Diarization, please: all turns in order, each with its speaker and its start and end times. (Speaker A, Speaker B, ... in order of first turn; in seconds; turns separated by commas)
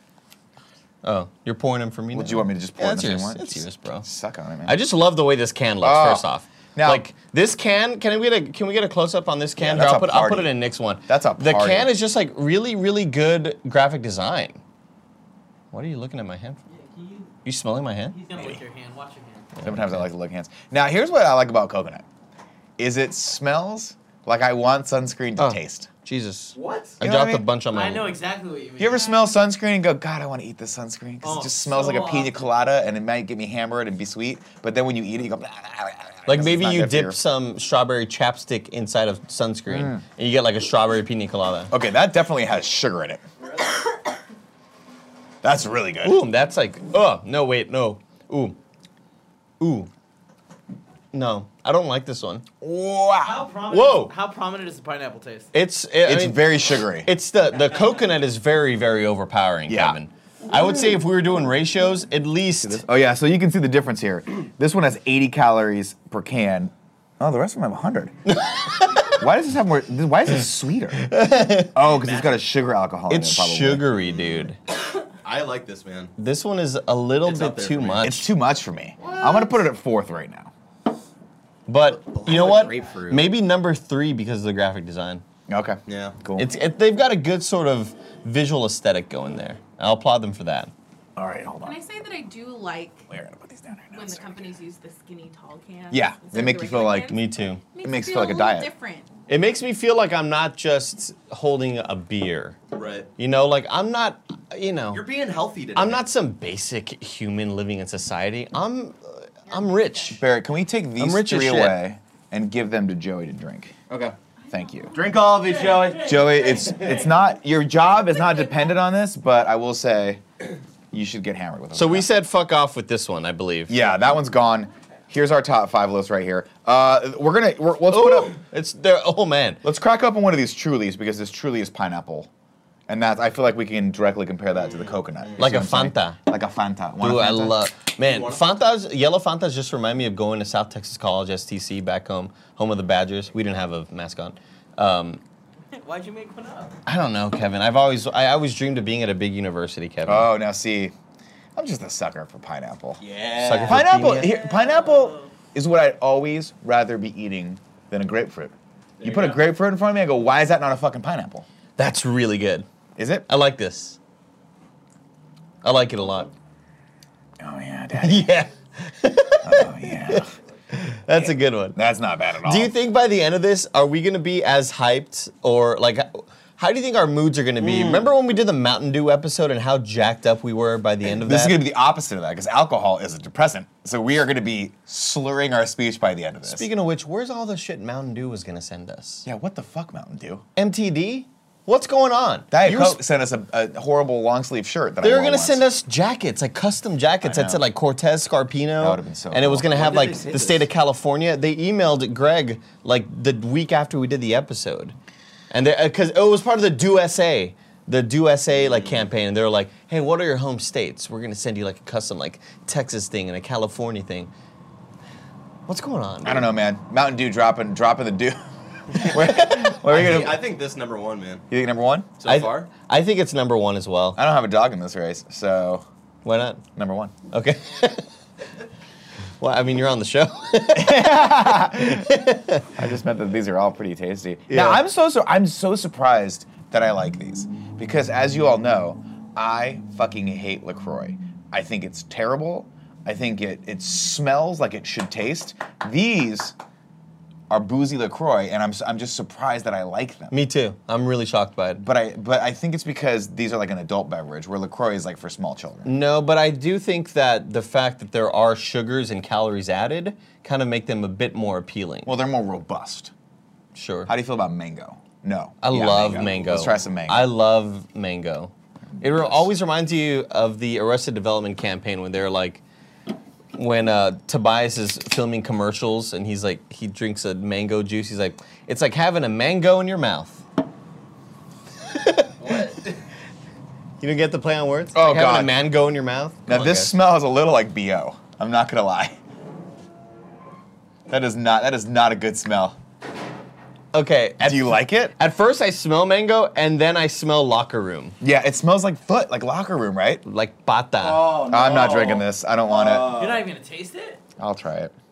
Speaker A: 1.0-4.1, Speaker B: 2.1-4.8, Speaker A: 4.7-14.6, Speaker B: 5.8-7.0, Speaker B: 9.6-10.6, Speaker B: 11.1-11.9, Speaker A: 15.7-16.6, Speaker C: 16.7-17.3, Speaker A: 17.4-18.1, Speaker C: 18.1-19.5, Speaker B: 18.3-18.6, Speaker A: 19.6-20.1, Speaker B: 19.6-22.0, Speaker B: 22.8-25.9, Speaker A: 25.4-28.1, Speaker D: 26.5-26.9, Speaker B: 27.0-27.5, Speaker C: 27.7-29.1, Speaker B: 28.8-37.2, Speaker C: 31.2-32.4, Speaker A: 36.2-41.7, Speaker B: 39.7-40.0, Speaker B: 41.7-43.2, Speaker B: 45.4-46.2, Speaker A: 46.0-48.6, Speaker A: 49.6-49.9, Speaker A: 51.1-52.4, Speaker B: 52.6-53.5, Speaker C: 53.2-55.5, Speaker A: 53.7-54.1, Speaker A: 55.5-62.9, Speaker B: 56.0-57.1, Speaker B: 59.7-60.0, Speaker B: 62.6-68.2, Speaker A: 68.2-69.2, Speaker B: 69.0-71.2, Speaker A: 71.0-71.8, Speaker B: 71.7-74.1, Speaker D: 71.8-72.4, Speaker A: 73.1-74.6, Speaker D: 75.2-76.1, Speaker A: 76.2-78.3, Speaker D: 77.2-78.0, Speaker B: 78.0-80.5, Speaker A: 81.7-85.2, Speaker D: 81.9-83.4, Speaker B: 85.5-86.5, Speaker D: 85.9-86.2, Speaker A: 86.3-90.7, Speaker B: 91.2-91.8, Speaker E: 91.6-93.1, Speaker B: 93.1-94.5, Speaker E: 93.9-99.1, Speaker B: 95.9-97.2, Speaker A: 97.1-97.6, Speaker B: 97.8-98.7, Speaker A: 99.3-102.6, Speaker D: 102.7-103.1, Speaker A: 103.2-105.0, Speaker D: 104.9-106.0, Speaker A: 105.7-110.2, Speaker E: 109.5-110.1, Speaker B: 110.1-113.8, Speaker A: 111.0-111.8, Speaker D: 113.9-114.1, Speaker E: 114.4-115.1, Speaker B: 114.5-114.9, Speaker D: 114.9-116.8, Speaker C: 115.2-117.1, Speaker B: 116.0-120.2, Speaker E: 118.1-118.6, Speaker B: 120.9-122.1, Speaker A: 121.7-123.8, Speaker B: 123.7-128.4, Speaker A: 127.9-129.6, Speaker B: 129.6-132.3, Speaker B: 132.9-137.6, Speaker D: 134.5-135.5, Speaker A: 135.4-136.2, Speaker A: 137.0-145.2, Speaker D: 138.0-138.5, Speaker C: 145.7-146.7, Speaker A: 146.8-150.3, Speaker B: 150.0-150.9, Speaker B: 151.6-153.0, Speaker D: 153.0-154.1, Speaker A: 153.4-154.3, Speaker B: 153.6-161.4, Speaker C: 154.5-155.2, Speaker D: 159.0-159.4, Speaker A: 161.8-162.7, Speaker B: 162.9-163.3, Speaker A: 163.3-164.0, Speaker A: 165.6-166.3, Speaker B: 167.4-168.3, Speaker A: 168.0-171.8, Speaker B: 169.4-170.3, Speaker B: 171.2-172.8, Speaker A: 172.4-181.6, Speaker D: 177.7-178.0, Speaker B: 181.0-186.7, Speaker A: 186.4-189.3, Speaker B: 189.2-190.4, Speaker A: 190.6-193.0, Speaker B: 192.5-195.6, Speaker A: 195.0-204.9, Speaker B: 197.2-197.6, Speaker B: 198.8-199.7, Speaker D: 199.6-200.7, Speaker A: 205.5-214.3, Speaker D: 208.5-209.1, Speaker A: 215.7-216.5, Speaker B: 216.2-220.4, Speaker A: 218.9-219.5, Speaker D: 219.3-221.4, Speaker B: 221.5-222.1, Speaker D: 222.2-222.7, Speaker A: 222.2-224.2, Speaker B: 224.1-225.8, Speaker A: 226.2-226.6, Speaker B: 226.8-227.1, Speaker A: 227.3-228.1, Speaker A: 229.4-232.7, Speaker B: 230.7-232.1, Speaker B: 232.7-246.5, Speaker A: 234.5-234.8, Speaker B: 247.5-250.3, Speaker A: 250.3-251.8, Speaker B: 251.8-255.9, Speaker A: 255.8-262.1, Speaker B: 262.0-263.1, Speaker A: 263.7-264.1, Speaker B: 264.1-267.3, Speaker A: 265.6-272.6, Speaker B: 268.9-269.4, Speaker A: 273.5-280.4, Speaker A: 281.9-282.6, Speaker D: 282.4-282.7, Speaker A: 284.0-286.9, Speaker B: 284.9-285.6, Speaker B: 286.4-289.2, Speaker B: 291.1-292.8, Speaker A: 293.9-298.2, Speaker B: 294.4-295.2, Speaker B: 298.2-300.2, Speaker A: 300.2-301.4, Speaker D: 301.0-303.5, Speaker B: 301.4-303.1, Speaker C: 303.2-304.2, Speaker B: 304.4-304.9